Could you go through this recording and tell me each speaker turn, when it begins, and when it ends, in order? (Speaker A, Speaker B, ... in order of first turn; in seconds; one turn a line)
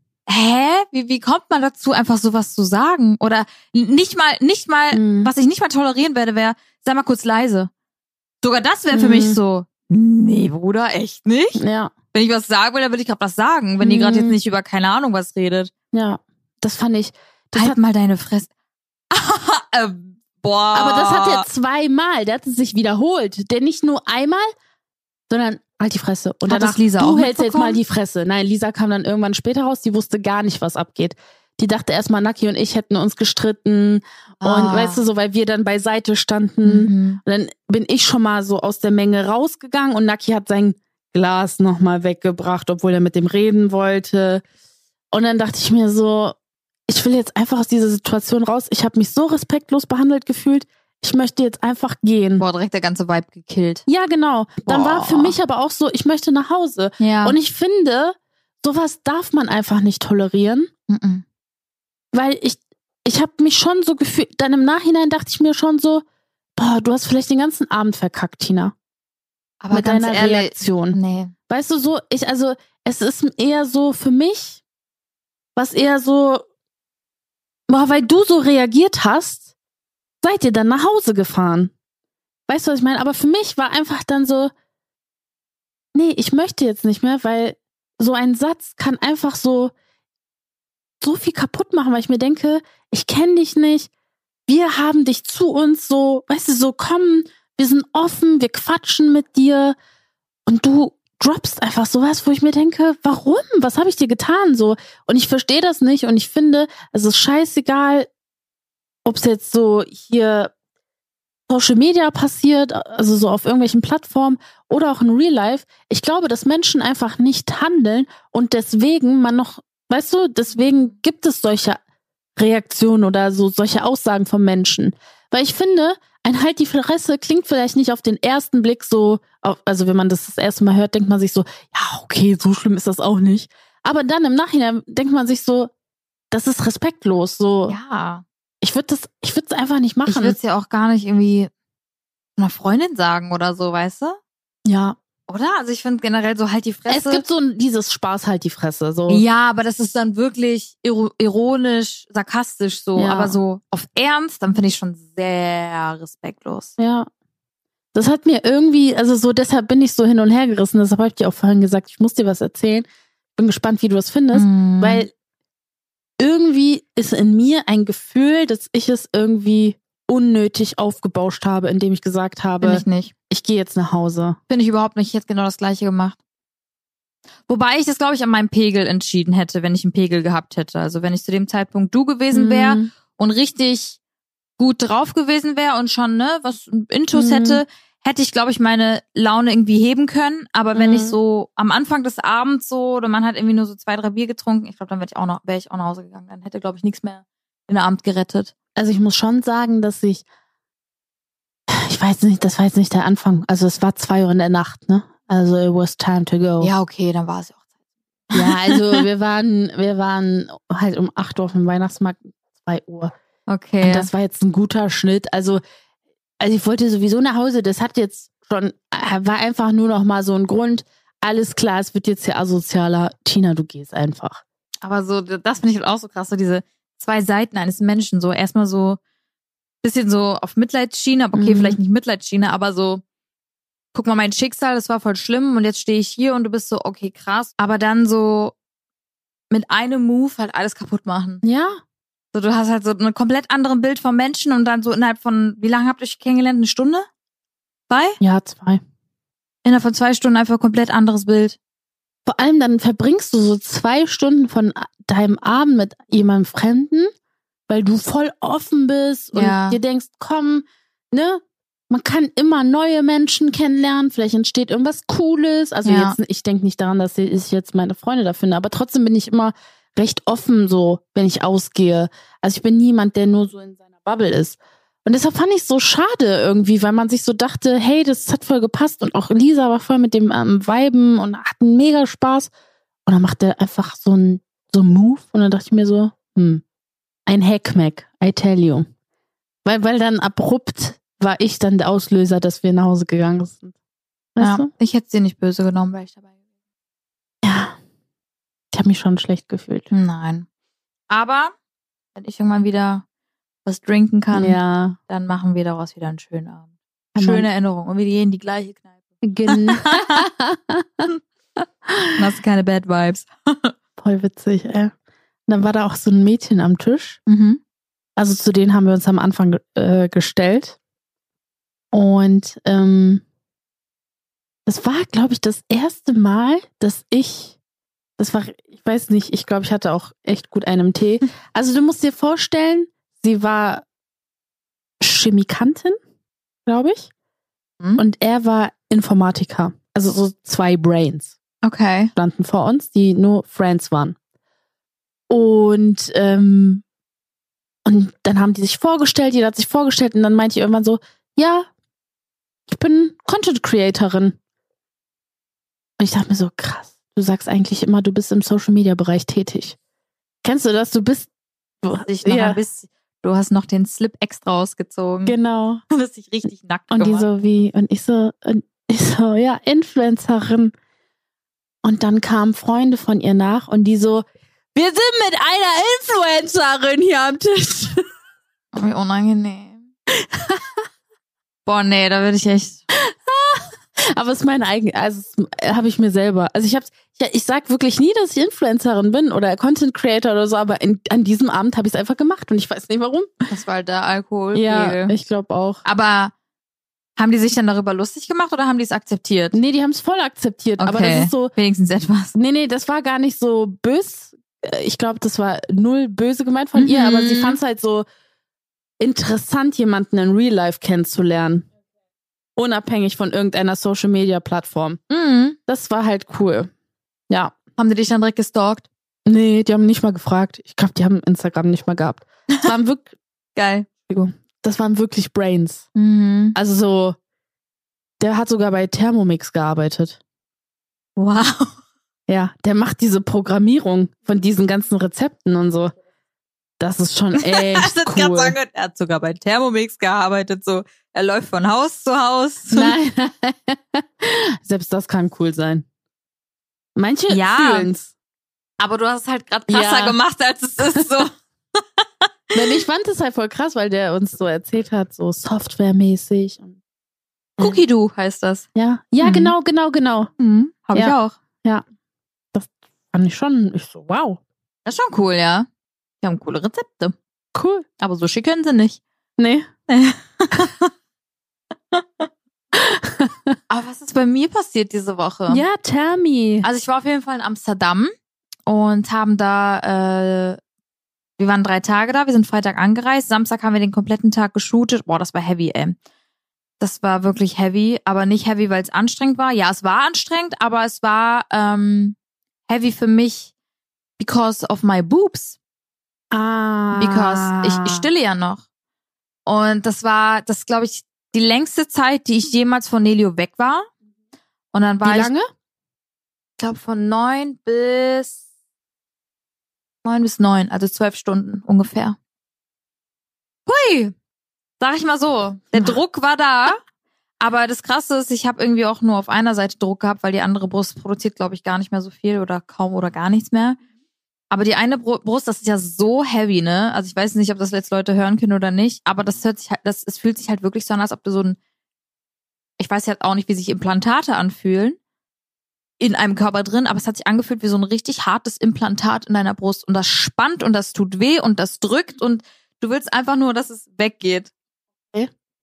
Speaker A: 0.3-7.7
Speaker B: 4.9-5.3
Speaker A: 8.4-11.6
Speaker B: 8.9-9.4
Speaker B: 11.6-11.9
Speaker A: 12.1-15.7
Speaker B: 13.8-14.4
Speaker B: 15.9-17.8
Speaker A: 17.5-18.5
Speaker A: 19.1-21.4
Speaker B: 20.7-24.5
Speaker B: 25.3-44.4
Speaker A: 26.4-27.8
Speaker A: 34.4-35.0
Speaker A: 36.6-37.2
Speaker B: 45.1-46.4
Speaker B: 46.9-52.4
Speaker A: 52.4-53.8
Speaker B: 53.9-60.7
Speaker A: 54.6-55.4
Speaker A: 57.0-57.4
Speaker A: 60.9-61.2
Speaker B: 62.1-66.0
Speaker B: 66.6-68.7
Speaker A: 69.6-71.3
Speaker B: 69.7-74.6
Speaker B: 75.5-76.4
Speaker B: 77.7-79.5
Speaker B: 80.2-81.7
Speaker B: 82.5-84.5
Speaker B: 85.9-89.7
Speaker B: 91.0-93.9
Speaker B: 94.5-99.8
Speaker B: 100.5-108.1
Speaker B: 109.0-110.5
Speaker B: 111.5-121.8
Speaker A: 120.5-120.9
Speaker B: 122.4-135.7
Speaker B: 136.3-137.8
Speaker A: 137.7-138.2
Speaker B: 138.6-140.4
Speaker A: 140.1-141.5
Speaker A: 142.4-144.2
Speaker B: 144.7-144.9
Speaker A: 145.3-147.2
Speaker B: 146.9-149.2
Speaker A: 149.1-156.7
Speaker B: 152.9-153.4
Speaker B: 156.8-157.1
Speaker B: 157.9-165.1
Speaker A: 164.3-165.1
Speaker B: 166.2-174.4
Speaker A: 172.6-173.1
Speaker A: 174.5-176.2
Speaker A: 177.5-184.0
Speaker B: 182.3-182.9
Speaker A: 184.6-198.5
Speaker B: 187.1-187.6
Speaker B: 190.7-191.2
Speaker B: 198.8-200.2
Speaker B: 201.7-206.7
Speaker A: 206.6-207.6
Speaker A: 208.3-209.0
Speaker B: 208.3-213.1
Speaker A: 213.5-214.1
Speaker B: 213.8-215.6
Speaker B: 216.4-224.4
Speaker A: 224.8-229.0
Speaker A: 229.8-233.0
Speaker B: 231.3-231.8
Speaker A: 233.9-238.5
Speaker A: 239.5-241.4
Speaker B: 241.4-241.8
Speaker A: 242.3-247.1
Speaker A: 247.9-248.2
Speaker B: 248.2-248.8
Speaker A: 249.6-251.6
Speaker B: 252.2-257.1
Speaker B: 257.7-282.5
Speaker A: 259.3-259.8
Speaker A: 265.8-266.2
Speaker B: 283.1-286.6
Speaker B: 287.2-288.9
Speaker B: 289.6-293.7
Speaker B: 294.4-294.7
Speaker A: 294.4-296.3
Speaker B: 297.4-297.8
Speaker B: 298.7-299.9
Speaker A: 299.9-300.4
Speaker A: 301.1-301.5
Speaker A: 302.1-303.0
Speaker A: 303.6-306.6
Speaker B: 304.3-305.0
Speaker B: 307.1-307.5
Speaker A: 307.2-310.2
Speaker B: 309.2-311.1
Speaker B: 311.9-312.2
Speaker A: 312.2-313.7
Speaker B: 314.0-314.9
Speaker B: 315.5-317.2
Speaker A: 317.3-317.6
Speaker B: 318.2-320.8
Speaker B: 321.9-323.2
Speaker B: 324.6-327.6
Speaker B: 328.2-333.8
Speaker B: 335.0-336.0
Speaker B: 336.6-337.1
Speaker B: 338.0-341.3
Speaker A: 341.6-342.1
Speaker B: 342.1-344.1
Speaker B: 345.3-346.8
Speaker B: 347.9-351.7
Speaker B: 352.7-354.4
Speaker B: 356.0-359.8
Speaker B: 360.4-361.3
Speaker B: 361.8-362.6
Speaker A: 362.1-365.4
Speaker B: 365.2-365.8
Speaker A: 365.9-367.3
Speaker B: 366.9-370.7
Speaker B: 371.8-378.0
Speaker A: 378.7-379.9
Speaker B: 380.3-380.8
Speaker A: 381.6-382.8
Speaker B: 382.9-393.3
Speaker A: 393.5-395.1
Speaker B: 394.5-395.8
Speaker A: 395.8-396.3
Speaker A: 397.2-399.6
Speaker B: 399.5-401.5
Speaker A: 400.8-402.3
Speaker B: 402.3-408.0
Speaker A: 406.8-407.6
Speaker B: 409.0-411.7
Speaker B: 412.6-415.0
Speaker A: 415.1-415.6
Speaker B: 415.7-416.7
Speaker A: 417.8-418.9
Speaker B: 419.2-423.1
Speaker A: 423.5-423.9
Speaker B: 424.1-425.9
Speaker A: 425.9-426.6
Speaker B: 426.5-427.2
Speaker B: 428.2-430.2
Speaker A: 431.1-431.7
Speaker B: 432.3-435.9
Speaker B: 436.8-438.6
Speaker A: 437.4-442.9
Speaker B: 442.7-445.9
Speaker B: 446.9-448.1
Speaker A: 447.3-447.9
Speaker A: 448.8-452.3
Speaker B: 449.7-450.2
Speaker B: 450.8-451.1
Speaker B: 452.5-456.8
Speaker A: 457.6-458.7
Speaker B: 458.7-460.3
Speaker A: 459.2-459.5
Speaker A: 460.4-461.4
Speaker B: 460.9-461.8
Speaker B: 462.5-464.4
Speaker A: 464.8-465.7
Speaker A: 466.2-467.1
Speaker B: 467.5-467.9
Speaker A: 468.0-469.0
Speaker B: 469.4-469.7
Speaker A: 469.9-470.9
Speaker A: 471.9-472.3
Speaker B: 472.7-473.6
Speaker A: 473.7-475.6
Speaker B: 475.5-476.6
Speaker A: 476.6-478.1
Speaker A: 478.6-480.6
Speaker A: 481.4-486.0
Speaker A: 486.8-492.1
Speaker A: 492.7-493.5
Speaker A: 494.2-495.6
Speaker B: 496.3-498.1
Speaker A: 496.9-498.6
Speaker A: 499.4-503.9
Speaker A: 504.7-505.3
Speaker B: 505.0-505.4
Speaker A: 506.6-508.4
Speaker A: 510.0-512.2
Speaker A: 513.6-514.1
Speaker A: 514.8-516.8
Speaker A: 517.4-523.8
Speaker A: 524.5-531.6
Speaker A: 532.8-535.0
Speaker A: 536.0-544.5